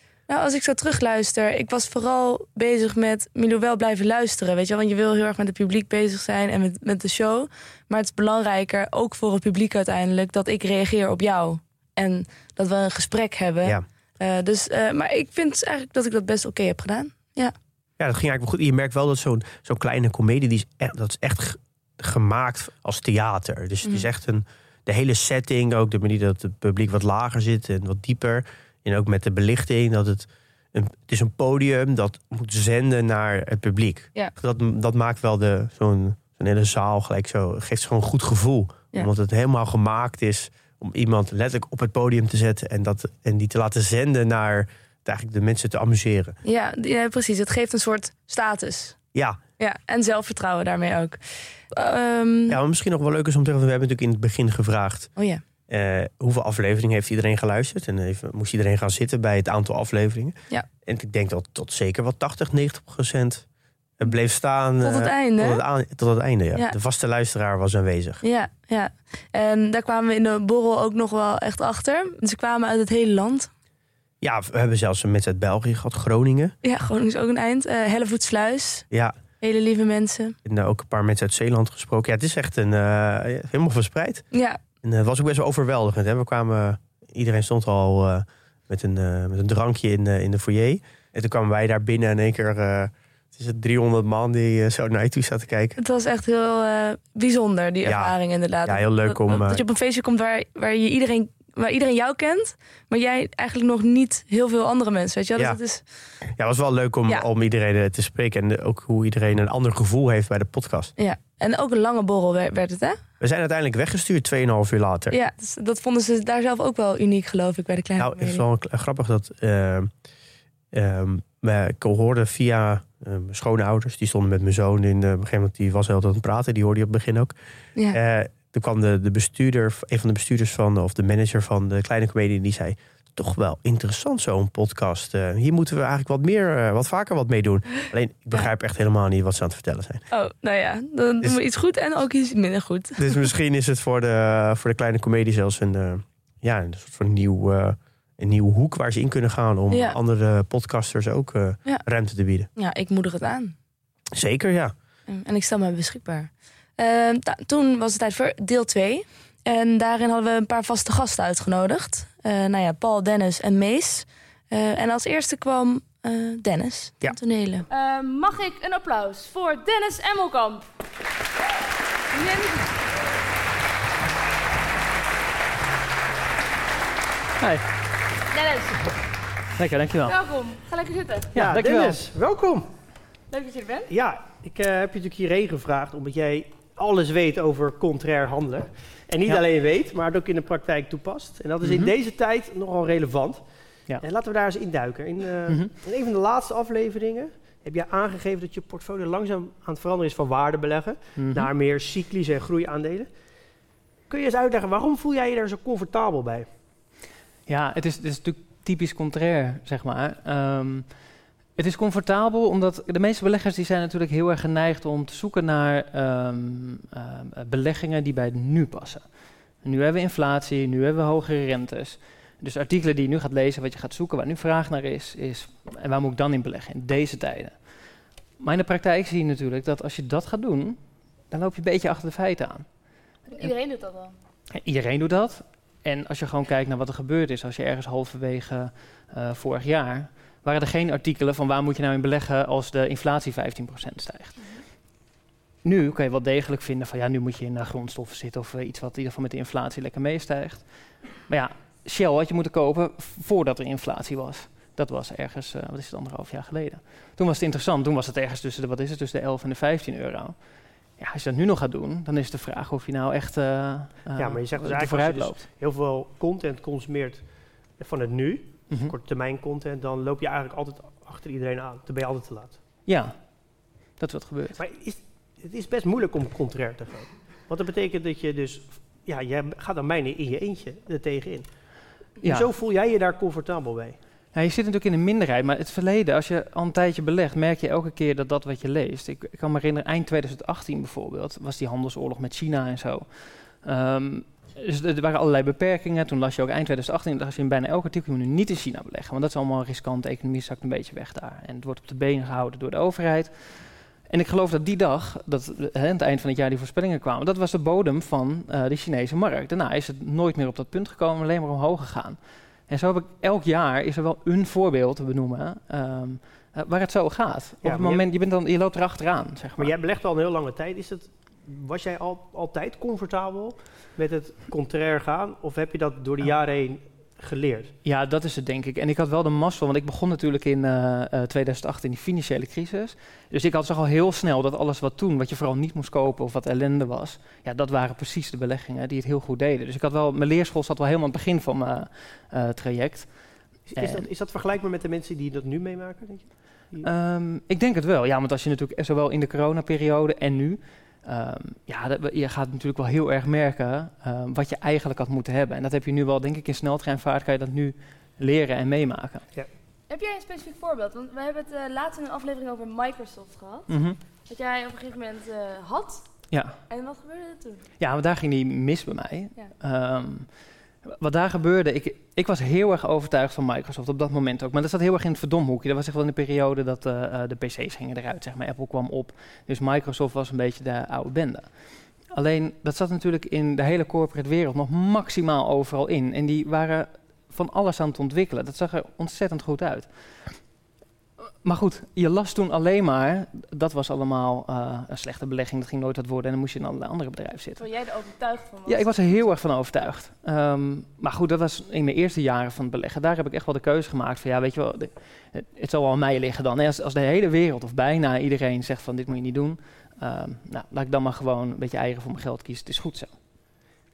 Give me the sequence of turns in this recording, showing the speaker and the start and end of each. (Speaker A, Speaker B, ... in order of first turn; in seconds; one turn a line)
Speaker A: 0.3-17.5
Speaker B: 18.0-46.4
Speaker A: 23.8-24.1
Speaker A: 46.4-49.0
Speaker B: 49.1-49.4
Speaker A: 49.6-52.6
Speaker B: 52.5-55.1
Speaker A: 55.1-55.4
Speaker B: 55.7-63.5
Speaker B: 64.0-68.2
Speaker A: 64.8-65.6
Speaker A: 68.2-73.5
Speaker B: 74.2-76.5
Speaker A: 76.6-80.3
Speaker B: 80.4-95.8
Speaker A: 84.3-84.6
Speaker A: 95.8-105.8
Speaker B: 97.8-99.6
Speaker B: 106.3-110.9
Speaker A: 111.0-113.0
Speaker B: 113.2-115.2
Speaker A: 115.1-118.4
Speaker B: 118.0-119.9
Speaker B: 120.7-127.3
Speaker B: 127.9-140.1
Speaker A: 140.1-143.3
Speaker B: 143.0-152.5
Speaker A: 149.7-150.0
Speaker A: 152.5-153.5
Speaker B: 154.1-154.7
Speaker A: 155.1-167.7
Speaker C: 167.7-170.6
Speaker C: 172.1-172.8
Speaker D: 177.4-177.6
Speaker C: 178.3-178.9
Speaker D: 179.6-180.2
Speaker C: 180.1-181.3
Speaker D: 181.3-182.0
Speaker E: 181.3-182.7
Speaker C: 183.3-183.9
Speaker E: 183.9-203.1
Speaker D: 191.6-191.9
Speaker D: 201.2-201.5
Speaker E: 204.1-206.5
Speaker D: 207.5-233.5
Speaker C: 233.3-234.1
Speaker D: 234.6-244.8
Speaker D: 245.6-265.4
Speaker E: 264.1-272.6
Speaker D: 268.7-268.9
Speaker D: 272.9-274.6
Speaker E: 274.5-284.0
Speaker D: 282.2-282.5
Speaker D: 284.3-319.7
Speaker E: 317.6-318.1
Speaker E: 319.6-327.7
Speaker D: 327.8-344.1
Speaker E: 343.7-346.9
Speaker D: 346.8-359.3
Speaker C: 359.9-367.6
Speaker D: 363.7-364.0
Speaker D: 366.3-366.6
Speaker D: 367.8-390.6
Speaker D: 391.4-397.7
Speaker C: 397.6-399.4
Speaker D: 398.6-413.7